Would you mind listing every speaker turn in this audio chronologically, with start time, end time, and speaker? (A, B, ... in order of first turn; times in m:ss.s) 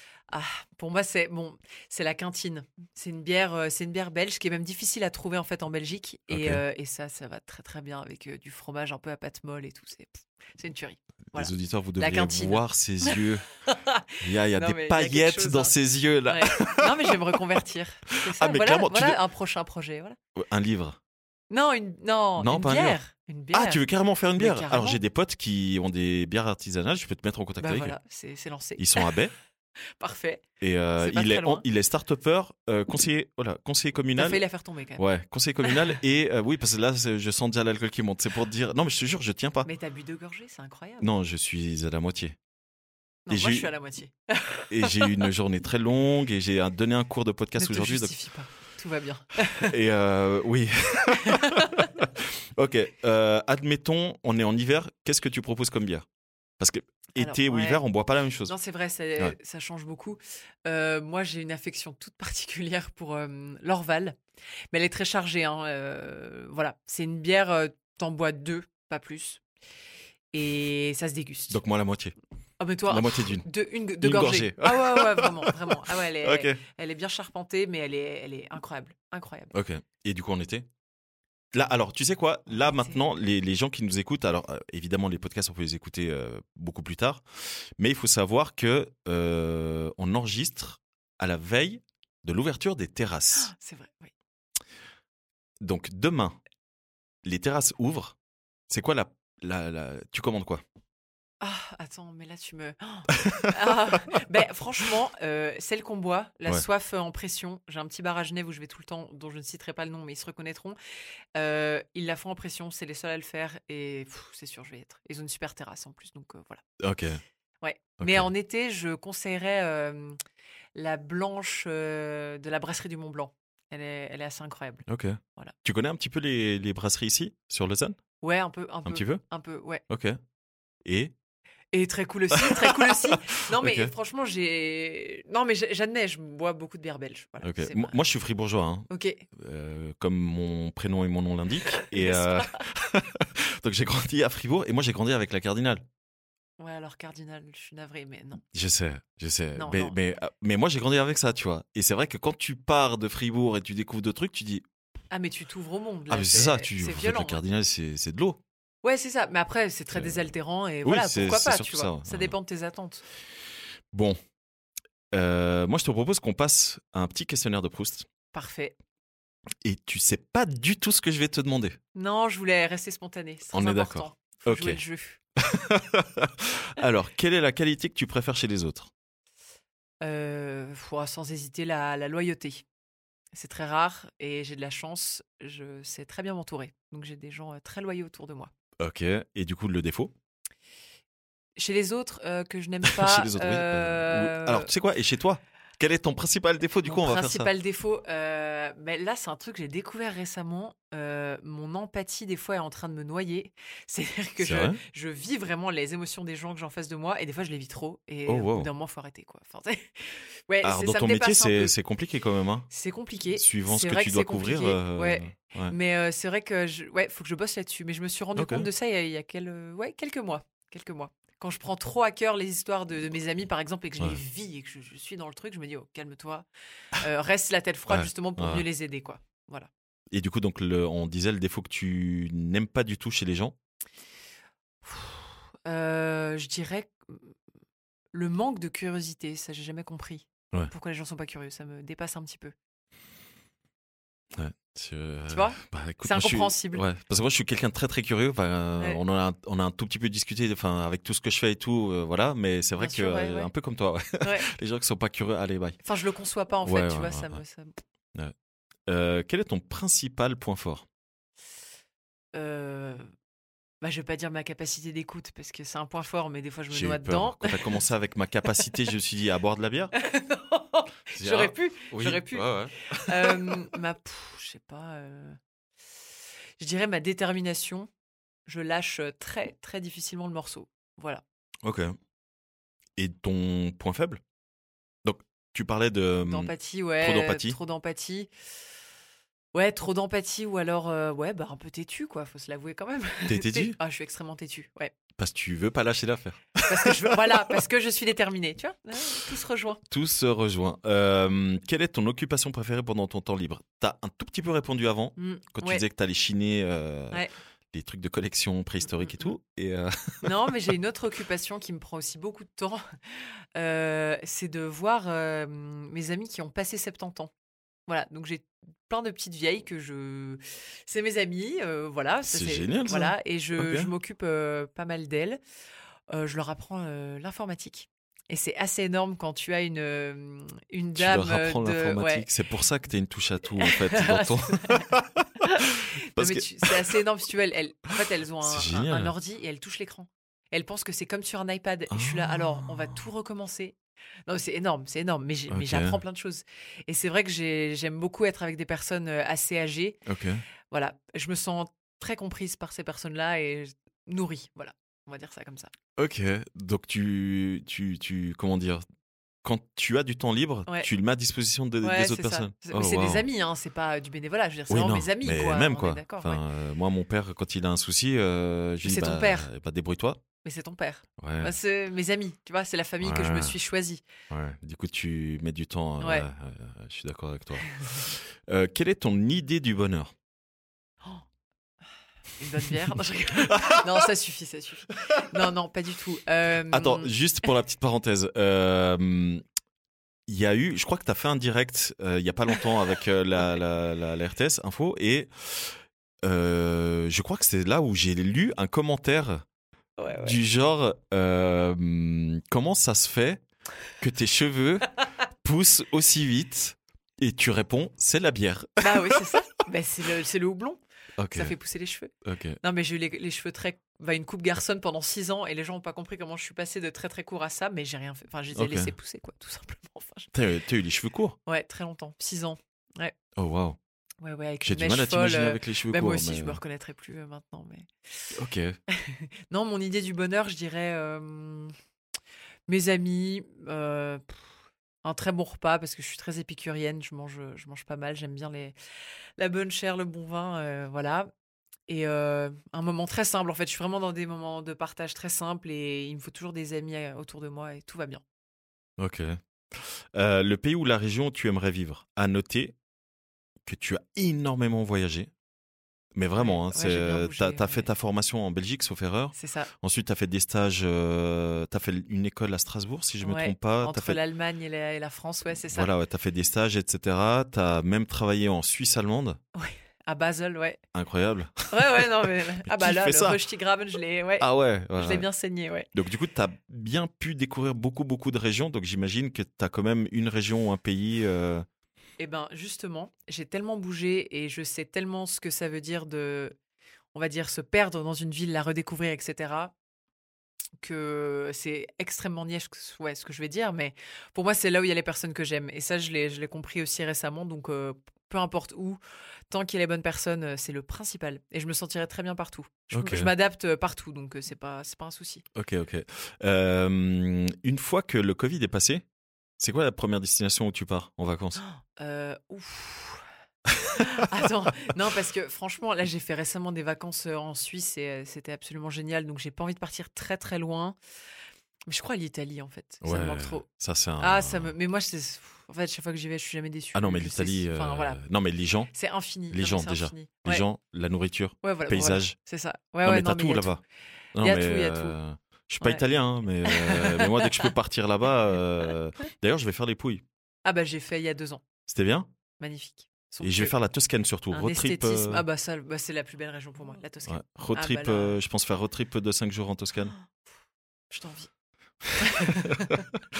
0:00.3-0:15.7 A
0:06.3-0:06.6 B
0:11.3-0:13.4 B
0:14.2-0:17.2 B
0:16.2-0:20.2 A
0:18.3-0:19.2 B
0:20.4-0:21.0 B
0:21.5-0:23.8 A
0:22.4-0:23.0 B
0:23.5-0:28.0 B
0:24.4-0:25.0 A
0:27.6-0:29.1 A
0:28.8-0:29.3 B
0:30.0-0:30.4 A
0:30.6-0:34.4 B
0:31.0-0:31.6 A
0:34.2-0:35.0 A
0:35.0-0:39.7 B
0:35.6-0:35.9 A
0:39.6-0:41.1 A
0:41.0-0:42.4 B
0:43.2-0:45.2 A
0:43.3-0:43.7 B
0:44.7-0:48.1 B
0:47.5-0:49.7 A
0:49.6-0:56.0 B
0:51.2-0:51.8 A
0:56.6-0:58.5 B
0:57.2-0:57.8 A
0:58.4-1:04.2 A
1:04.7-1:09.4 A
1:10.3-1:11.6 A
1:11.5-1:12.1 B
1:12.6-1:19.5 A
1:12.9-1:13.5 B
1:14.0-1:16.6 B
1:19.5-1:20.7 B
1:21.5-1:33.5 B
1:22.5-1:23.0 A
1:33.3-1:34.1 A
1:35.6-1:36.4 B
1:37.2-1:38.2 B
1:38.7-1:40.6 B
1:41.4-1:50.8 A
1:43.2-1:43.7 B
1:51.3-1:56.6 A
1:56.8-1:57.2 B
1:57.6-2:00.2 A
1:58.0-1:58.3 B
2:00.7-2:04.8 A
2:04.9-2:08.0 B
2:08.2-2:09.8 A
2:08.8-2:09.2 B
2:09.9-2:10.2 B
2:10.8-2:11.1 B
2:11.7-2:18.0 A
2:12.3-2:13.9 B
2:17.4-2:25.8 B
2:18.9-2:19.2 A
2:21.8-2:22.6 A
2:26.6-2:28.4 A
2:28.5-2:34.6 B
2:29.6-2:29.9 A
2:35.1-2:37.4 A
2:36.1-2:38.4 B
2:38.8-2:43.0 A
2:39.9-2:40.3 B
2:40.8-2:42.3 B
2:43.9-2:44.2 B
2:45.1-2:48.1 B
2:48.3-2:48.7 A
2:49.6-2:51.8 B
2:51.9-2:55.2 A
2:53.5-2:54.8 B
2:55.4-2:58.9 B
3:00.0-3:02.6 A
3:03.3-3:08.5 A
3:08.8-3:10.1 B
3:11.6-3:14.7 A
3:12.8-3:17.5 B
3:16.8-3:31.7 A
3:24.4-3:24.8 B
3:28.3-3:28.7 B
3:30.6-3:32.7 B
3:32.7-3:49.7 A
3:33.3-3:35.7 B
3:38.3-3:38.7 B
3:47.9-3:48.6 B
3:50.1-3:53.5 B
3:54.8-3:57.3 A
3:58.1-4:02.5 A
4:04.3-4:15.8 B
4:05.3-4:06.8 A
4:12.8-4:13.5 A
4:14.2-4:14.5 A
4:15.8-4:17.7 A
4:16.6-4:17.4 B
4:18.9-4:20.8 B
4:22.3-4:23.1 A
4:23.8-4:27.7 A
4:26.7-4:29.9 B
4:30.0-4:35.4 A
4:31.2-4:33.7 B
4:36.6-4:37.9 A
4:38.5-4:41.2 A
4:41.6-4:42.0 B
4:43.0-4:44.2 B
4:45.0-4:47.6 B
4:46.2-4:48.3 A
4:49.5-4:54.9 A
4:53.3-4:53.8 B
4:55.2-4:57.4 B
4:56.7-4:59.8 A
4:59.9-5:10.4 B
5:05.2-5:05.8 A
5:08.8-5:09.3 A
5:10.2-5:12.8 A
5:13.6-5:17.3 A
5:17.9-5:25.4 A
5:22.3-5:23.9 B
5:26.1-5:32.3 A
5:31.0-5:37.0 B
5:33.6-5:34.9 A
5:35.4-5:43.8 A
5:38.4-5:39.1 B
5:41.9-5:42.9 B
5:44.3-5:50.0 A
5:45.5-5:46.0 B
5:50.0-5:50.4 B
5:50.7-5:55.7 A
5:56.0-5:58.8 B
5:59.4-6:03.2 B
6:01.8-6:06.4 A
6:04.7-6:10.2 B
6:08.8-6:09.5 A
6:10.4-6:14.0 A
6:11.2-6:11.5 B
6:13.0-6:13.6 B
6:14.3-6:20.1 B
6:16.0-6:16.3 A
6:22.4-6:27.1 A
6:23.4-6:24.0 B
6:26.7-6:29.4 B
6:30.3-6:39.4 B
6:40.0-6:40.4 A
6:40.2-6:43.4 B
6:44.0-6:49.3 B
6:48.8-6:50.8 A
6:51.2-6:51.6 B
6:51.3-7:00.3 A
6:52.2-6:52.6 B
6:58.5-6:58.9 B
7:00.3-7:01.4 B
7:01.4-7:03.1 A
7:03.4-7:03.8 B
7:04.2-7:07.9 A
7:04.6-7:06.6 B
7:08.3-7:08.8 B
7:08.9-7:11.7 A
7:12.7-7:14.4 A
7:15.0-7:18.7 A
7:19.4-7:21.3 A
7:21.9-7:28.2 A
7:29.0-7:32.7 B
7:33.6-7:35.3 B
7:36.1-7:44.2 B
7:36.4-7:37.9 A
7:39.3-7:39.7 A
7:43.2-7:45.9 A
7:45.7-7:49.4 B
7:49.5-7:50.8 A
7:50.9-7:53.4 B
7:51.7-7:55.9 A
7:54.4-7:55.2 B
7:55.9-8:01.6 B
8:02.2-8:06.6 A
8:07.1-8:09.7 A
8:10.8-8:25.4 A
8:22.9-8:23.3 B
8:25.5-8:29.0 B
8:29.6-8:31.6 B
8:31.6-8:33.2 A
8:33.7-8:34.0 B
8:34.0-8:41.0 A
8:41.9-8:43.6 A
8:43.0-8:44.7 B
8:44.2-8:48.2 A
8:46.9-8:48.9 B
8:48.9-8:50.6 A
8:49.5-8:52.4 B
8:51.6-8:53.7 A
8:53.0-8:53.8 B
8:54.4-9:00.2 B
8:54.4-8:55.2 A
8:55.8-8:56.1 A
8:56.6-8:57.7 A
9:00.6-9:01.6 A
9:01.9-9:02.3 B
9:02.6-9:03.8 A
9:03.4-9:05.4 B
9:04.5-9:08.4 A
9:07.2-9:10.1 B
9:11.1-9:11.5 A
9:12.2-9:13.0 A
9:12.2-9:12.8 B